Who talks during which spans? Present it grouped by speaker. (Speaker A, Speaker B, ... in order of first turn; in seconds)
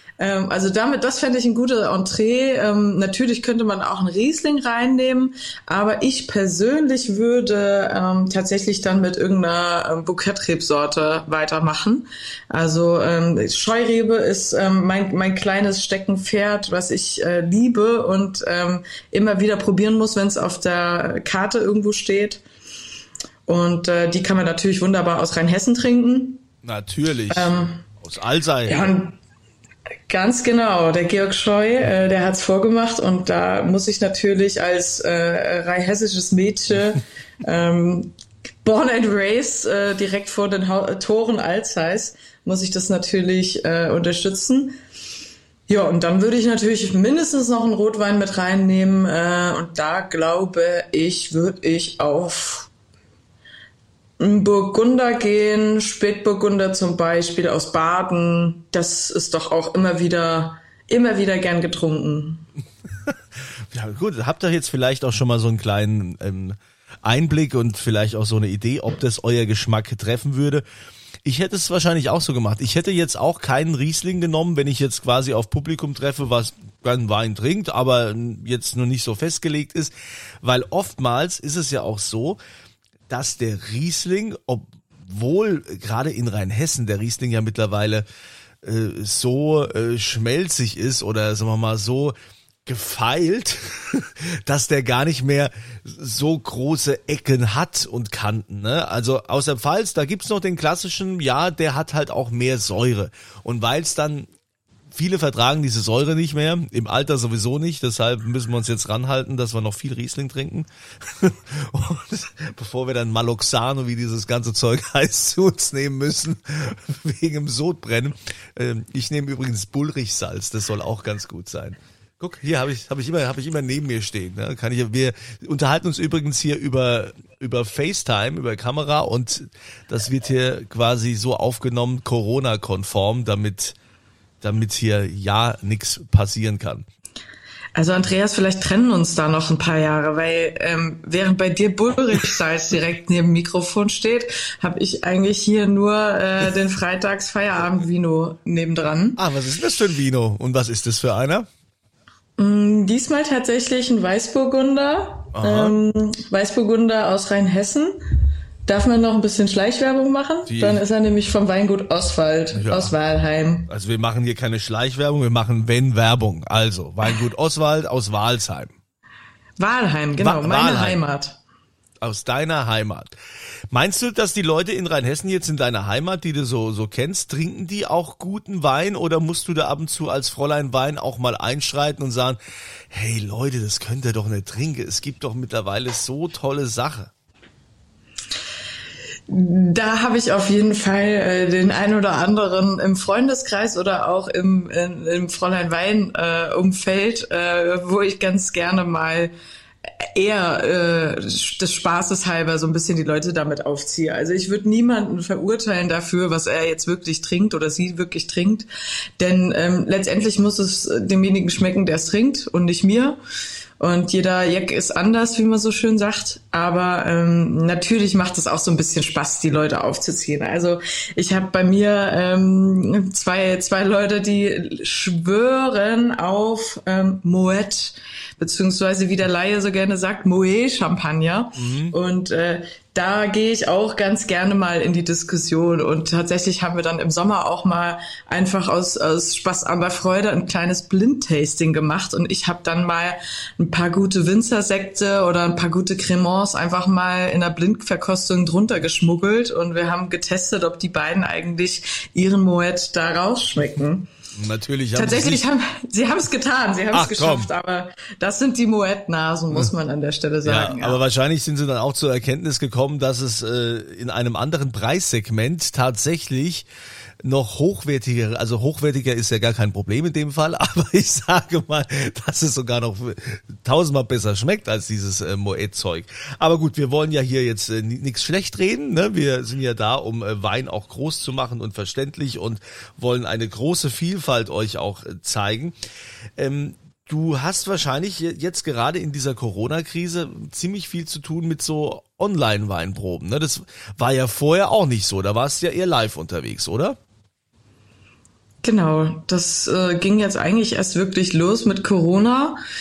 Speaker A: 0.2-22.4, 23.4-26.4, 27.3-27.8, 28.7-29.2, 30.1-38.1, 38.6-44.8, 45.7-52.7, 54.2-62.4, 137.7-149.2, 152.4-158.0, 158.7-163.7, 169.6-171.4, 189.3-199.3, 200.0-208.7, 209.2-213.2, 213.8-254.1, 254.9-261.0, 298.6-302.6
Speaker B: 26.6-28.9, 63.7-70.6, 71.2-82.4, 83.1-88.0, 88.6-92.1, 92.7-104.3, 104.9-133.8, 134.4-136.8, 149.2-151.5, 155.3-155.7, 160.5-160.8, 162.5-162.9, 163.7-168.7, 170.2-171.0, 172.0-173.2, 173.7-182.4, 182.9-187.1, 231.6-231.9, 254.3-255.4, 256.9-257.5, 260.4-266.7, 267.2-285.7, 286.4-297.0